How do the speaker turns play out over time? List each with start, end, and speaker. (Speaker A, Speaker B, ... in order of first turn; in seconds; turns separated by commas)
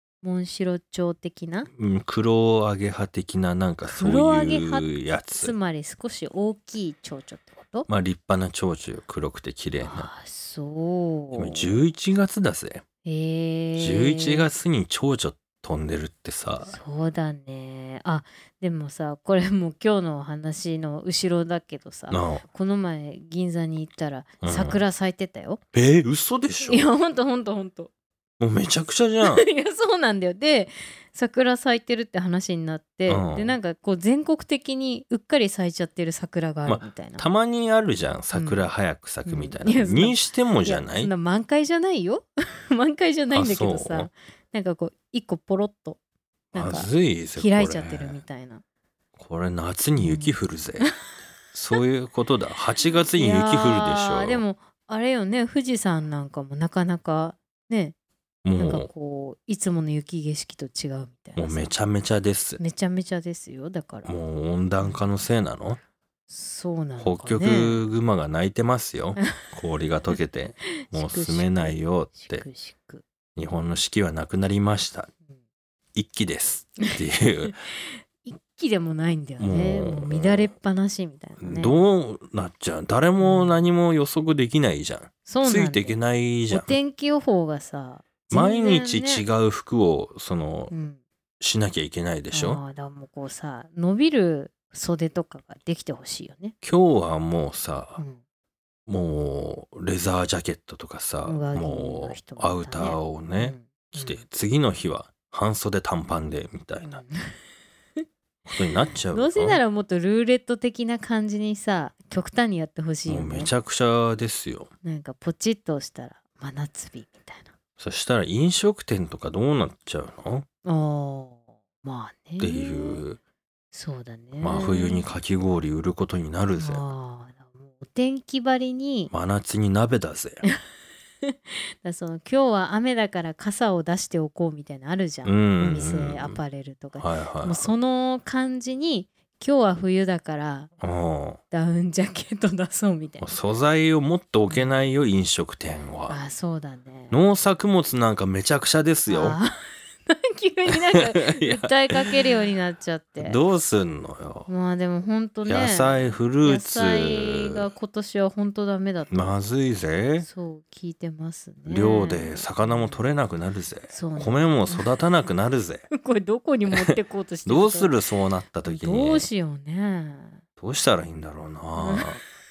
Speaker A: 0.2-1.7, Speaker B: 1.7-5.5, Speaker A: 3.9-7.9, Speaker B: 7.9-10.1, Speaker A: 9.8-11.8, Speaker B: 11.3-12.8, Speaker A: 13.0-14.5, Speaker B: 13.8-16.8, Speaker A: 16.6-25.6, Speaker B: 22.1-22.4, Speaker B: 24.4-24.8, Speaker B: 25.7-26.9, Speaker A: 26.6-27.9, Speaker B: 28.4-29.4, Speaker A: 29.2-37.3, Speaker B: 33.1-33.5, Speaker B: 36.6-41.1, Speaker A: 38.3-38.7, Speaker A: 39.2-46.0, Speaker B: 43.3-44.1, Speaker A: 46.5-48.6, Speaker B: 46.5-48.2, Speaker B: 49.1-51.0, Speaker A: 50.0-50.9, Speaker B: 51.5-54.4, Speaker A: 53.0-57.9, Speaker B: 58.4-58.9, Speaker A: 58.6-61.7, Speaker B: 61.4-62.6, Speaker A: 62.6-64.1, Speaker B: 64.0-65.8, Speaker A: 66.3-67.8, Speaker B: 67.0-72.4, Speaker A: 70.7-73.0, Speaker B: 73.3-75.1, Speaker B: 75.9-77.6, Speaker A: 76.8-81.8, Speaker B: 79.4-80.5, Speaker B: 81.4-86.8, Speaker A: 83.2-83.6, Speaker A: 85.2-89.2, Speaker B: 88.3-90.7, Speaker A: 90.7-91.0, Speaker B: 91.4-92.6, Speaker A: 92.3-96.5, Speaker B: 96.6-98.0, Speaker B: 98.9-107.0, Speaker A: 101.2-104.2, Speaker A: 106.8-107.3, Speaker B: 108.5-109.6, Speaker A: 109.1-113.5, Speaker B: 113.1-114.7, Speaker A: 114.8-117.5, Speaker B: 117.8-120.5, Speaker A: 120.6-123.0, Speaker B: 122.4-123.2, Speaker A: 123.7-125.0, Speaker B: 124.4-126.8, Speaker A: 126.5-129.1, Speaker B: 129.1-130.4, Speaker A: 131.2-140.7, Speaker B: 135.2-136.4, Speaker B: 137.0-137.7, Speaker B: 140.8-141.4, Speaker A: 141.5-143.3, Speaker B: 143.2-146.2, Speaker A: 144.5-144.8, Speaker A: 146.1-147.2, Speaker B: 147.1-149.4, Speaker A: 149.1-149.5, Speaker A: 150.1-153.4, Speaker B: 150.7-152.2, Speaker B: 153.2-154.5, Speaker A: 154.5-159.3, Speaker B: 155.4-157.6, Speaker B: 159.1-160.3, Speaker A: 160.2-163.0, Speaker B: 161.7-165.8, Speaker A: 163.9-164.8, Speaker A: 165.9-167.9, Speaker B: 167.4-169.3, Speaker A: 168.6-170.4, Speaker B: 170.6-172.2, Speaker A: 171.8-172.2